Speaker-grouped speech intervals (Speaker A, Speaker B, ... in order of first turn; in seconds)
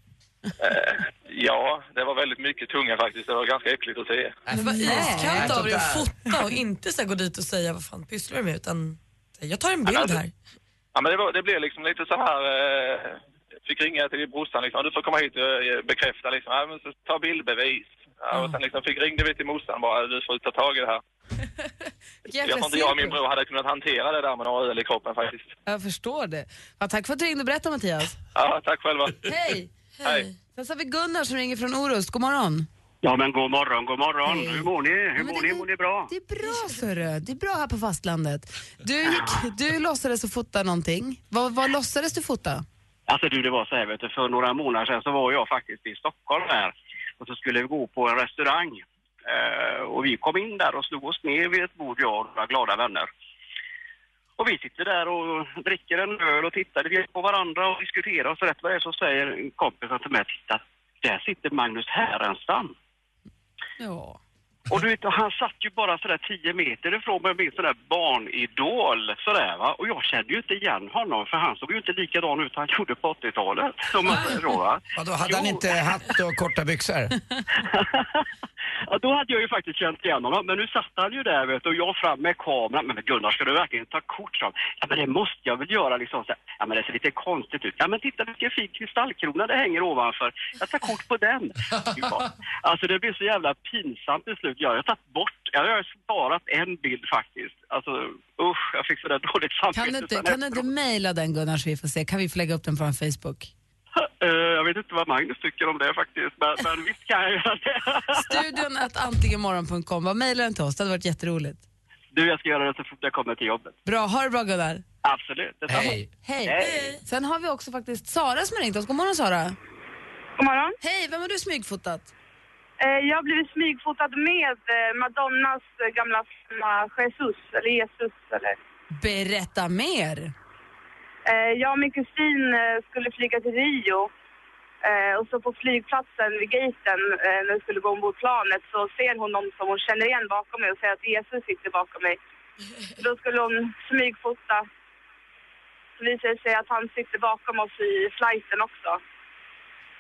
Speaker A: 0.6-4.4, 9.9-10.2, 10.9-21.0, 22.4-25.5, 28.4-29.3, 30.0-30.3
Speaker B: 4.5-6.1, 75.0-77.2, 115.7-116.1
Speaker C: 4.5-10.3, 30.0-30.3, 116.6-117.0
Speaker D: 4.6-5.7, 22.3-23.2, 25.7-28.2, 29.2-29.7, 30.6-32.7, 34.2-42.6, 63.8-64.2, 99.7-103.5, 108.1-111.6, 113.9-114.8, 115.8-119.6, 120.8-122.1, 129.0-130.3
Speaker E: 33.0-36.1, 43.1-53.1, 54.4-62.7, 64.7-75.7, 77.6-78.2, 78.9-100.7, 104.0-108.4, 112.1-113.8, 115.0-116.9
Speaker F: 120.4-120.8, 122.8-128.6, 131.3-134.1, 134.8-142.2, 143.0-144.7, 146.0-149.0